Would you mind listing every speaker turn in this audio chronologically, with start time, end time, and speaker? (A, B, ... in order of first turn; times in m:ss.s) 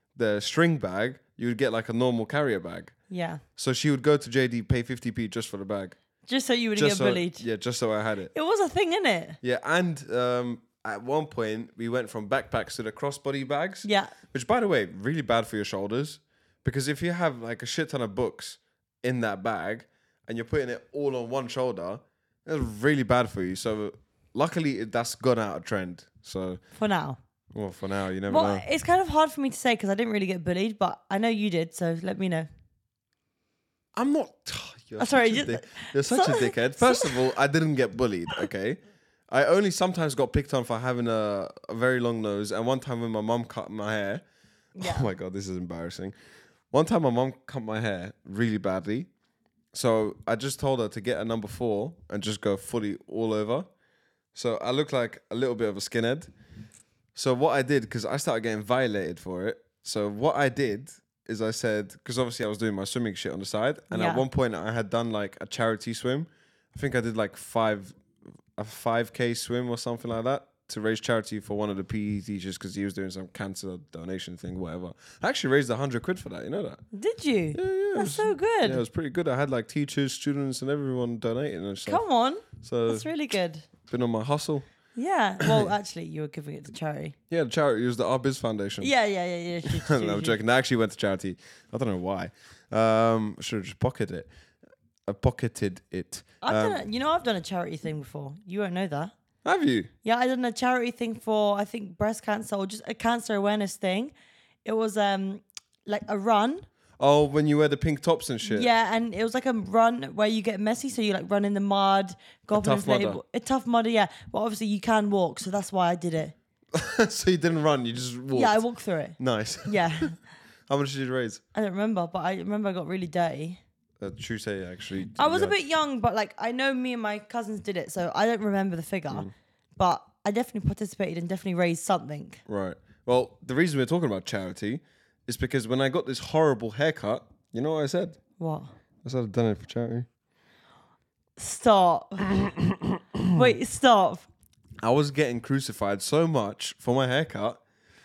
0:00.2-0:02.9 A
0:03.1-0:03.4 B
0:03.6-0:06.0 A
0:06.2-0:07.4 B
0:06.8-0:08.3 A
0:08.3-0:09.4 B
0:09.4-0:26.6 A
0:13.8-0:14.1 B
0:26.8-0:27.2 B
0:27.5-0:28.6 A
0:28.3-0:32.5 B
0:34.0-0:38.8 A
0:35.0-0:37.2 B
0:39.3-0:44.2 A
0:44.8-0:45.1 B
0:44.8-0:46.1 A
0:46.7-0:49.1 A
0:49.7-0:53.7 A
0:54.3-0:56.3 A
0:57.2-1:08.0 A
1:03.9-1:04.2 B
1:08.6-1:16.8 A
1:16.9-1:18.8 B
1:17.5-1:22.0 A
1:21.9-1:23.7 B
1:22.6-1:23.1 A
1:23.9-1:24.7 A
1:25.0-1:27.2 B
1:25.4-1:25.7 A
1:27.3-1:28.9 A
1:28.8-1:30.4 B
1:29.7-1:34.3 A
1:35.1-1:36.8 A
1:36.4-1:39.1 B
1:39.4-1:39.9 A
1:40.0-1:44.1 B
1:44.6-1:46.7 B
1:47.0-1:48.7 A
1:48.4-1:56.4 B
1:52.5-1:53.2 A
1:56.7-1:58.6 A
1:58.3-2:00.2 B
1:59.2-2:00.1 A
2:00.7-2:01.4 A
2:01.6-2:03.6 B
2:04.0-2:05.6 A
2:05.2-2:12.4 B
2:12.5-2:18.2 A
2:18.4-2:18.7 B
2:19.0-2:20.1 A
2:21.4-2:22.3 B
2:22.3-2:23.4 A
2:23.3-2:24.3 B
2:24.8-2:27.6 A